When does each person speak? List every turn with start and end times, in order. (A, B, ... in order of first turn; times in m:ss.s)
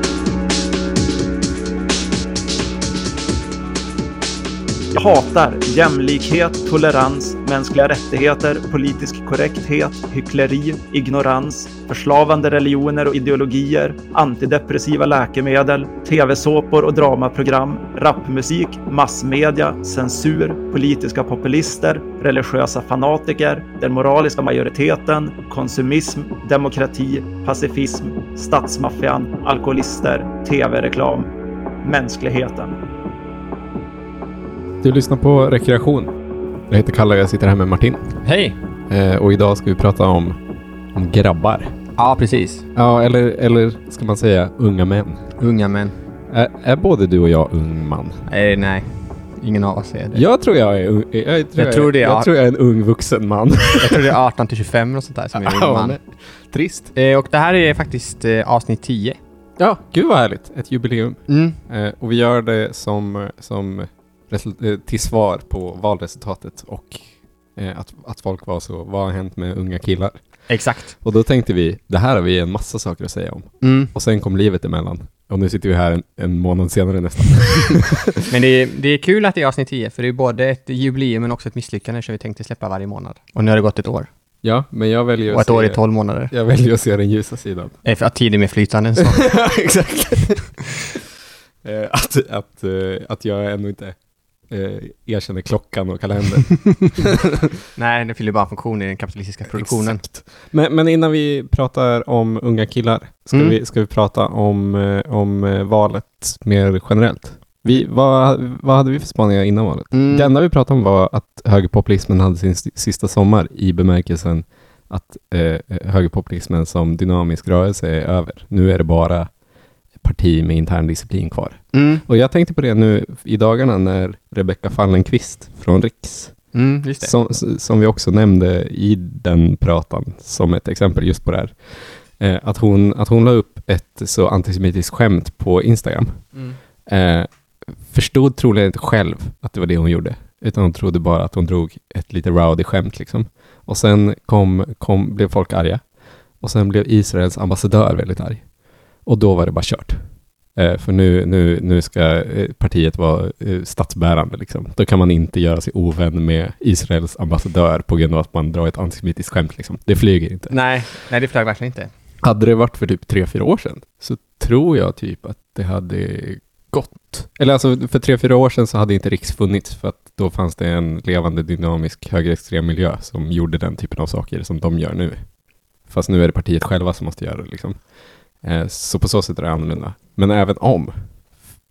0:04.9-0:31.3 A
0:31.8-0:32.8 A
0:34.8-0:36.1 B
0:36.7-0:38.1 B
0:38.2-0:38.6 C
0:38.9-0:40.4 B
0:40.9-0:41.7 B
0:42.0-0:42.6 C
0:42.8-0:45.2 B
0:45.4-0:45.9 C
0:46.3-0:48.2 B
0:48.3-0:50.2 C
0:50.1-0:54.2 B
0:51.6-0:52.3 C
0:53.8-0:56.0 C
0:55.3-0:56.9 B
0:57.0-0:59.2 C
0:59.6-1:10.2 B
1:01.3-1:01.6 C
1:10.5-1:11.0 C
1:10.9-1:18.3 B
1:13.6-1:13.9 C
1:18.3-1:24.1 C
1:24.4-1:27.7 B
1:25.3-1:26.3 C
1:27.8-1:29.5 C
1:29.0-1:30.5 B
1:31.6-1:34.0 B
1:34.5-1:37.6 B
1:37.8-1:40.0 C
1:39.5-1:59.3 B
1:49.9-1:50.3 C
2:00.0-2:06.4 B
2:01.7-2:02.0 C
2:06.5-2:07.1 C
2:07.0-2:16.3 B
2:16.9-2:17.3 B
2:17.8-2:25.8 B
2:26.4-2:28.4 B
2:29.0-2:30.0 B
2:30.6-2:40.6 B
2:40.5-2:41.9 C
2:42.2-2:55.3 B
2:55.9-2:57.9 B
2:58.4-3:00.9 B